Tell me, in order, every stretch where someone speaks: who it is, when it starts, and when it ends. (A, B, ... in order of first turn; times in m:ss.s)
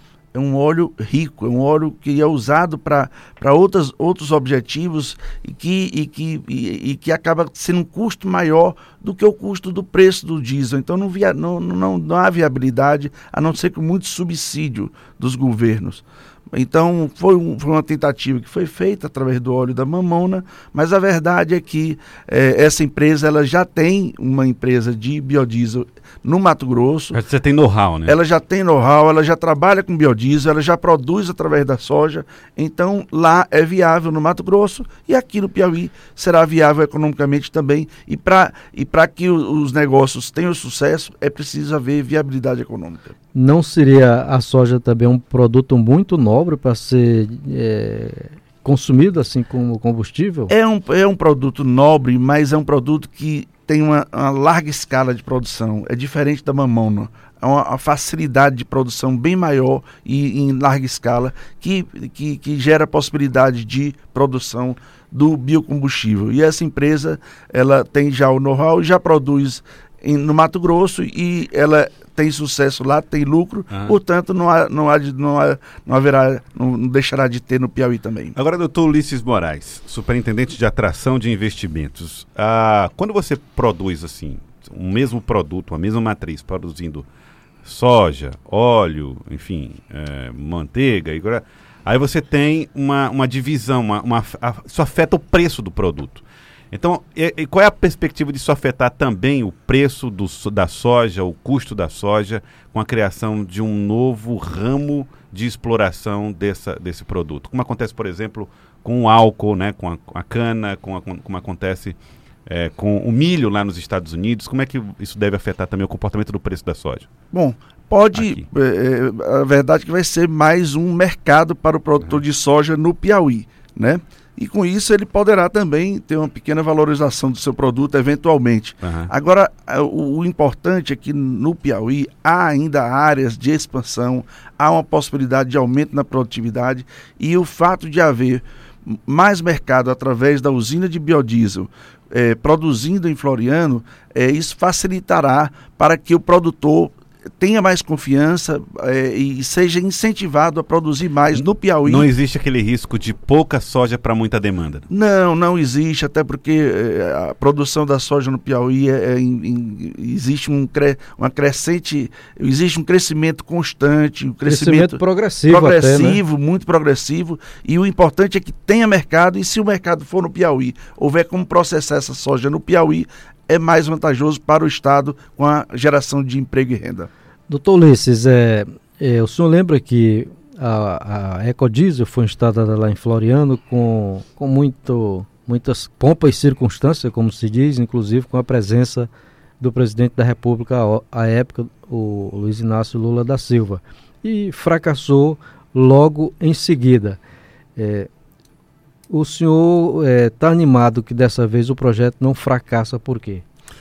0:00.3-0:27.2 A
0:27.1-0:28.2 B
0:28.0-0:43.1 A
0:43.3-0:50.5 C
0:50.5-1:18.4 A
1:18.4-1:27.1 B
1:27.6-1:57.1 B
1:57.3-2:32.1 A
1:58.1-1:58.4 B
2:08.8-2:09.1 B
2:31.3-2:34.9 B
2:34.9-2:57.1 A
2:44.5-2:46.2 C
2:57.5-3:17.2 C
3:17.8-3:18.1 C
3:19.1-3:23.4 C